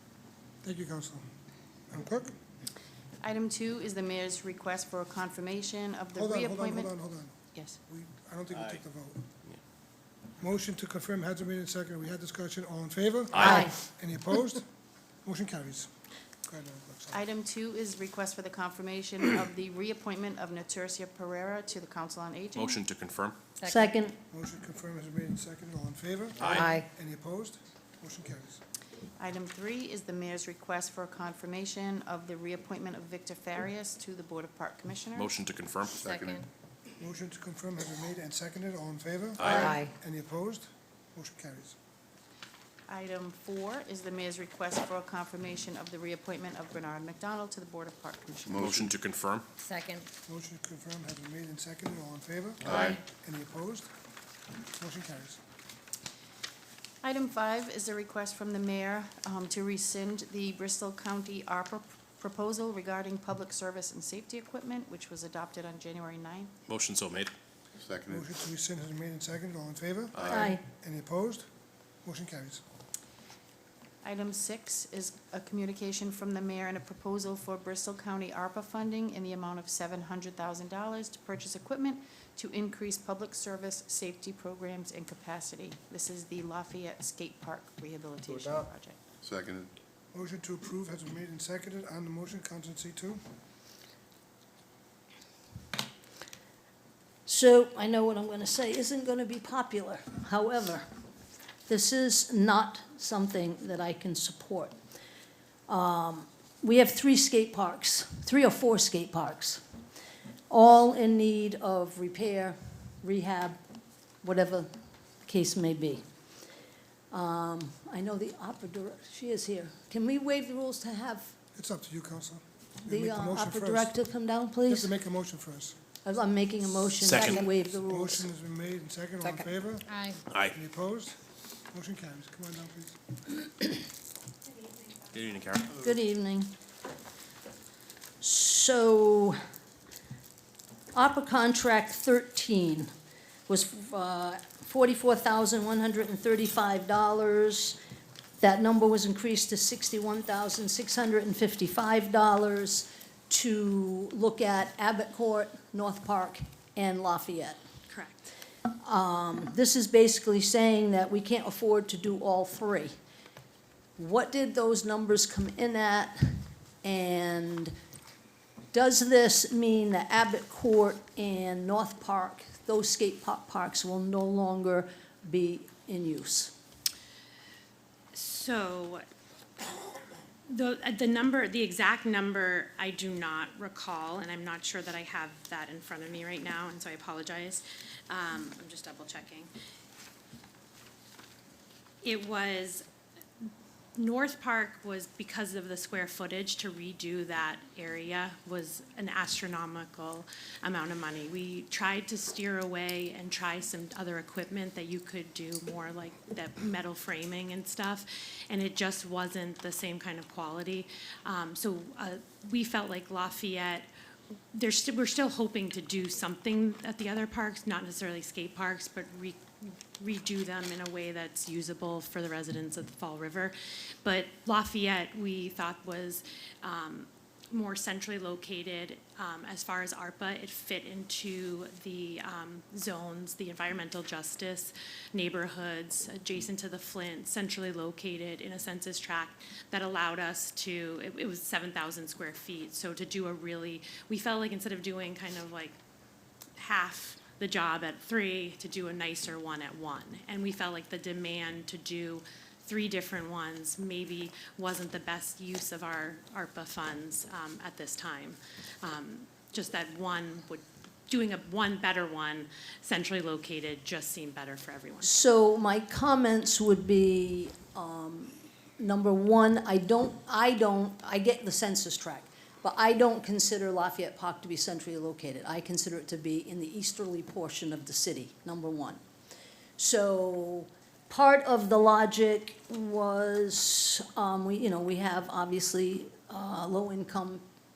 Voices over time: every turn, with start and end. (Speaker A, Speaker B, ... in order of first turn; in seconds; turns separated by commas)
Speaker A: 0.6-1.2, Speaker A: 1.9-2.3, Speaker B: 3.2-6.9, Speaker A: 6.1-7.3, Speaker A: 7.9-9.2, Speaker A: 10.4-14.7, Speaker C: 13.3-13.7, Speaker D: 13.3-13.7, Speaker A: 15.2-15.9, Speaker A: 16.4-17.2, Speaker B: 17.1-22.8, Speaker C: 22.5-23.4, Speaker E: 23.6-23.9, Speaker D: 23.6-24.2, Speaker A: 24.3-28.6, Speaker C: 26.4-26.8, Speaker E: 26.5-26.8, Speaker B: 29.2-35.3, Speaker C: 35.1-36.0, Speaker E: 36.0-36.4, Speaker F: 36.0-36.4, Speaker A: 37.0-41.7, Speaker C: 39.4-39.8, Speaker E: 39.6-39.9, Speaker B: 42.9-48.6, Speaker F: 48.5-48.9, Speaker C: 48.6-49.5, Speaker E: 49.6-50.1, Speaker A: 50.3-53.9, Speaker F: 52.6-53.0, Speaker A: 54.8-55.4, Speaker B: 57.0-66.5, Speaker C: 66.7-67.3, Speaker F: 67.8-68.3, Speaker A: 68.1-71.5, Speaker C: 70.1-70.5, Speaker D: 70.2-70.6, Speaker A: 72.0-72.6, Speaker B: 74.0-89.0, Speaker F: 88.3-88.6, Speaker F: 89.2-89.7, Speaker A: 90.1-93.2, Speaker D: 97.2-100.8, Speaker D: 101.7-104.7, Speaker D: 105.7-109.6, Speaker D: 110.5-113.6, Speaker D: 114.2-114.7, Speaker D: 115.2-116.0, Speaker D: 117.1-121.3, Speaker A: 121.5-123.9, Speaker D: 122.8-124.9, Speaker A: 124.7-125.8, Speaker D: 126.0-128.3, Speaker C: 127.0-127.5, Speaker A: 127.8-131.2, Speaker E: 129.2-130.2, Speaker C: 130.3-130.5, Speaker A: 131.7-133.0, Speaker C: 135.1-135.7, Speaker D: 135.7-136.5, Speaker D: 138.2-139.4, Speaker D: 140.9-142.9, Speaker D: 143.5-147.8, Speaker D: 148.4-157.6, Speaker G: 157.9-158.2, Speaker D: 158.8-162.9, Speaker D: 164.0-167.7, Speaker D: 168.7-176.5, Speaker G: 178.1-179.0, Speaker G: 179.6-179.9, Speaker G: 180.5-189.5, Speaker G: 192.0-192.8, Speaker G: 193.9-213.9, Speaker G: 214.5-245.8, Speaker G: 246.6-265.1, Speaker D: 265.0-279.0, Speaker D: 279.8-287.4